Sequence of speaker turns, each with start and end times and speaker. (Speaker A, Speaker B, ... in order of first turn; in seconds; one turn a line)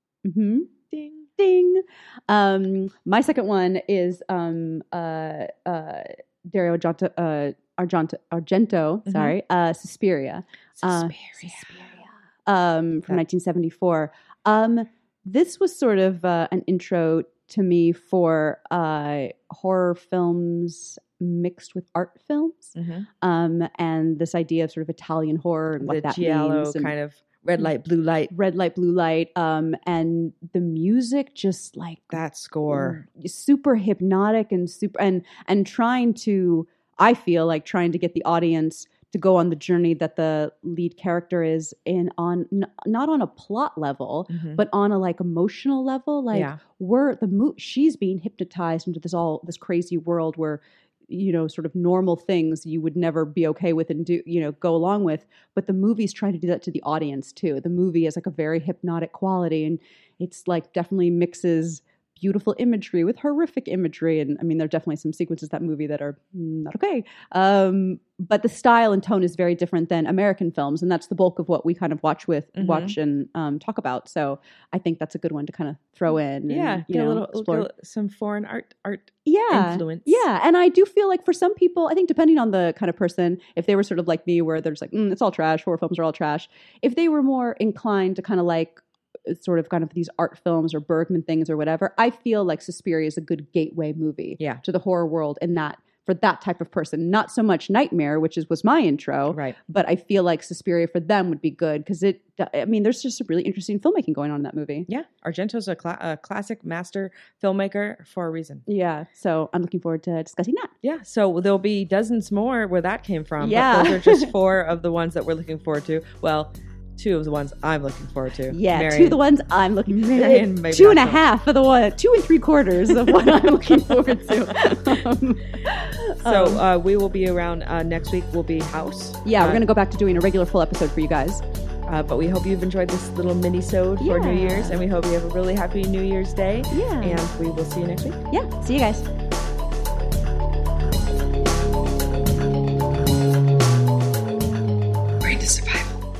Speaker A: 0.2-0.7
Speaker B: 0.9-1.3
Speaker A: 1.4-26.9
Speaker B: 9.1-9.3
Speaker B: 10.8-11.9
Speaker B: 22.7-23.1
Speaker B: 25.8-28.3
Speaker A: 28.3-77.7
Speaker B: 32.1-33.0
Speaker B: 44.3-44.6
Speaker B: 46.3-46.6
Speaker B: 72.5-73.0
Speaker B: 76.5-80.2
Speaker A: 79.2-104.9
Speaker B: 99.3-99.5
Speaker B: 104.9-108.6
Speaker A: 108.7-110.7
Speaker B: 110.8-119.2
Speaker A: 113.4-114.3
Speaker A: 118.5-126.6
Speaker B: 119.9-121.2
Speaker B: 124.6-124.9
Speaker B: 126.2-129.6
Speaker A: 129.2-131.4
Speaker B: 131.9-138.2
Speaker A: 134.0-134.8
Speaker A: 136.7-137.2
Speaker A: 138.3-139.1
Speaker B: 145.2-146.0